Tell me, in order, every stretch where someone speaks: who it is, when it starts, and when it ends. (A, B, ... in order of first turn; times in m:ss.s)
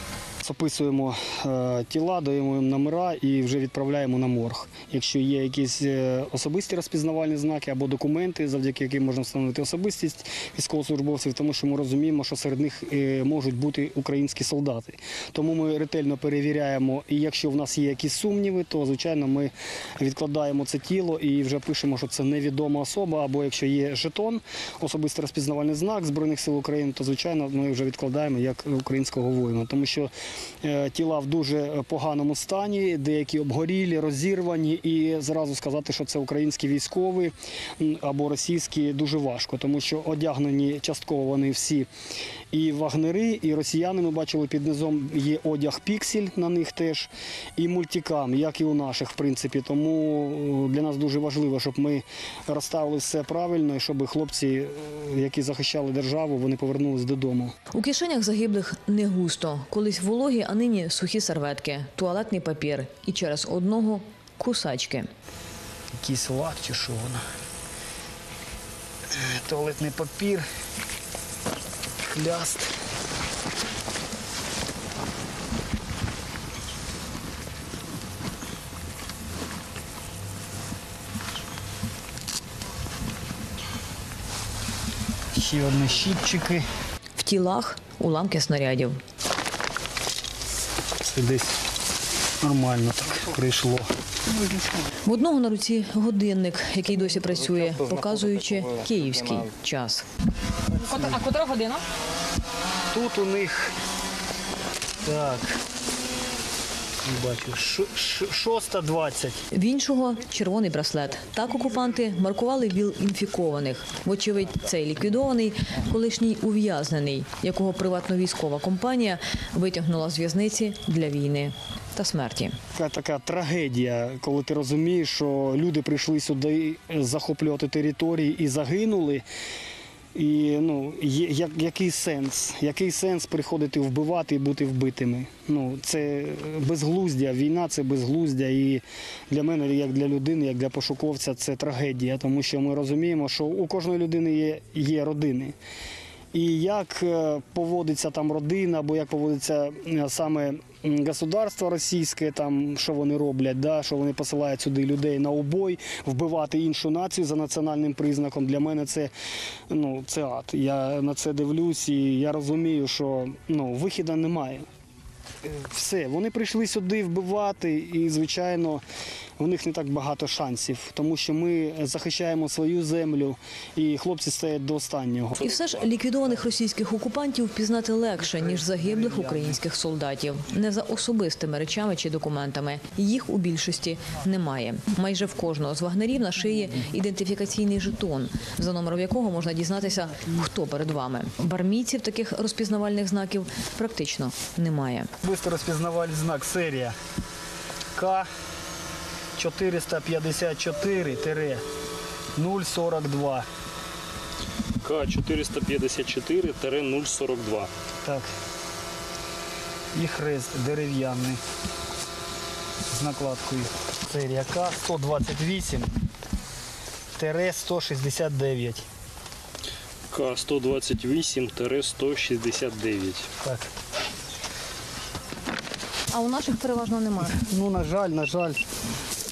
0:00.4-0:30.1 A
0:30.6-0:41.9 A
0:42.5-0:57.6 A
0:57.7-1:05.1 B
1:06.0-1:07.2 A
1:09.1-1:10.5 A
1:12.0-1:12.7 A
1:25.3-1:26.7 A
1:27.2-1:29.0 B
1:31.0-1:31.6 A
1:32.4-1:33.9 A
1:35.0-1:40.0 B
1:40.8-1:41.8 B
1:42.9-1:43.8 A
1:45.0-1:45.6 A
1:47.0-1:49.4 A
1:49.5-2:02.6 B
2:02.7-2:09.2 A
2:10.2-2:25.6 A
2:26.3-2:39.1 A
2:39.7-2:44.7 A
2:45.4-2:48.8 A
2:49.4-2:55.4 A
2:55.4-3:15.1 B
2:58.4-2:59.6 A
3:15.2-3:17.0 A
3:18.0-3:18.3 A
3:19.4-3:21.6 A
3:22.4-3:23.5 A
3:24.8-3:27.7 C
3:28.0-3:28.3 A
3:29.9-3:31.4 A
3:32.9-3:35.9 A
3:37.2-3:38.9 A
3:40.1-3:43.2 C
3:43.4-3:43.7 A
3:46.1-3:47.4 B
3:47.2-3:48.6 A